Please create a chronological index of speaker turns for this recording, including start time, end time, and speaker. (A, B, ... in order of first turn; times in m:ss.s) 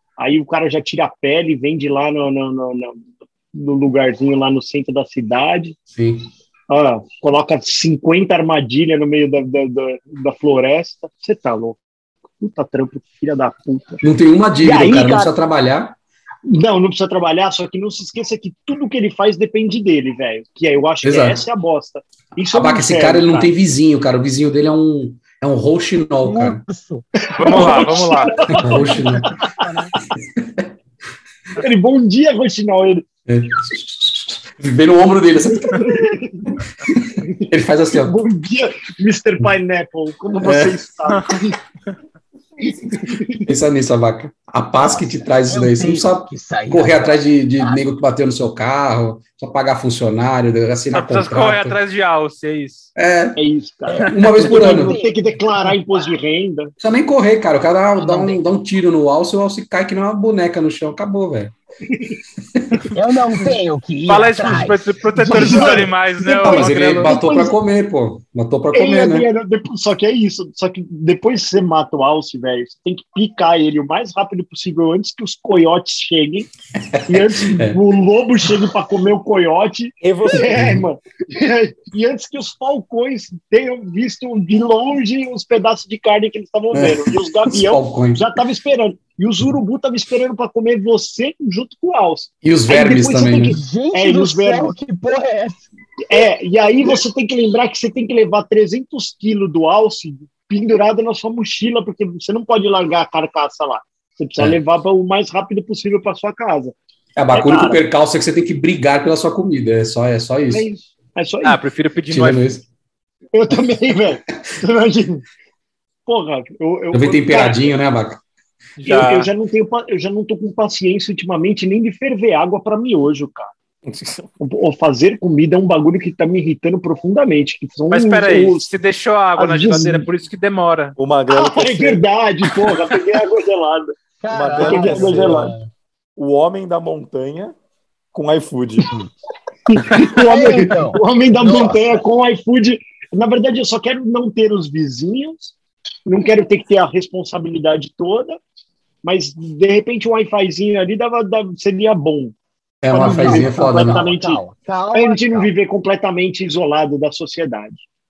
0:00.2-0:03.0 A
0:03.5-0:05.8 A
0:05.9-0:06.3 B
0:06.7-0:11.8 A
0:12.4-0:14.0 A
0:14.0-0:16.0 B
0:14.6-0:15.3 A
0:16.4-0:23.5 A
0:21.0-0:21.4 B
0:22.5-0:26.6 B
0:26.2-0:27.0 C
0:27.2-0:29.5 A
0:27.4-0:28.5 D
0:28.5-0:29.3 B
0:29.6-0:29.9 C
0:30.2-0:30.6 B
0:31.6-0:33.0 A
0:33.3-0:36.0 B
0:35.6-0:36.6 A
0:36.8-0:38.2 B
0:37.2-0:41.6 A
0:40.4-0:40.8 B
0:41.1-0:41.3 D
0:42.6-0:43.5 A
0:43.5-0:51.8 B
0:44.8-0:47.8 C
0:50.9-0:52.9 D
0:53.0-0:53.4 B
0:53.4-0:56.7 A
0:53.9-0:55.2 C
0:54.0-0:55.0 B
0:56.8-1:01.5 B
0:58.0-0:58.4 C
1:01.9-1:02.2 A
1:02.5-1:02.9 B
1:02.9-1:05.3 C
1:04.1-1:07.3 D
1:05.2-1:07.5 A
1:06.4-1:09.3 B
1:08.7-1:16.5 A
1:16.9-1:17.8 B
1:17.1-1:34.7 A
1:20.0-1:20.6 E
1:20.5-1:20.8 B
1:26.7-1:28.4 B
1:32.4-1:33.6 B
1:33.4-1:35.6 C
1:36.0-1:46.7 A
1:47.2-1:50.7 B
1:47.3-1:47.8 A
1:50.5-1:51.6 A
1:51.4-1:52.4 D
1:52.1-1:52.6 B
1:53.3-1:55.2 A
1:56.0-1:57.8 A
1:56.9-1:58.2 B
1:58.8-1:59.3 D
1:58.8-2:03.5 A
2:03.8-2:04.3 E
2:04.4-2:08.7 A
2:07.9-2:11.0 D
2:09.4-2:10.1 A
2:11.0-2:12.0 E
2:11.3-2:13.9 A
2:14.2-2:15.7 C
2:14.3-2:15.5 E
2:14.6-2:15.5 A
2:16.2-2:17.5 E
2:18.1-2:18.9 E
2:19.7-2:25.5 A
2:20.2-2:22.0 C
2:26.0-2:28.4 A
2:29.0-2:32.3 A
2:32.8-2:34.1 B
2:32.9-2:34.4 A
2:33.0-2:35.5 C
2:34.9-2:37.8 A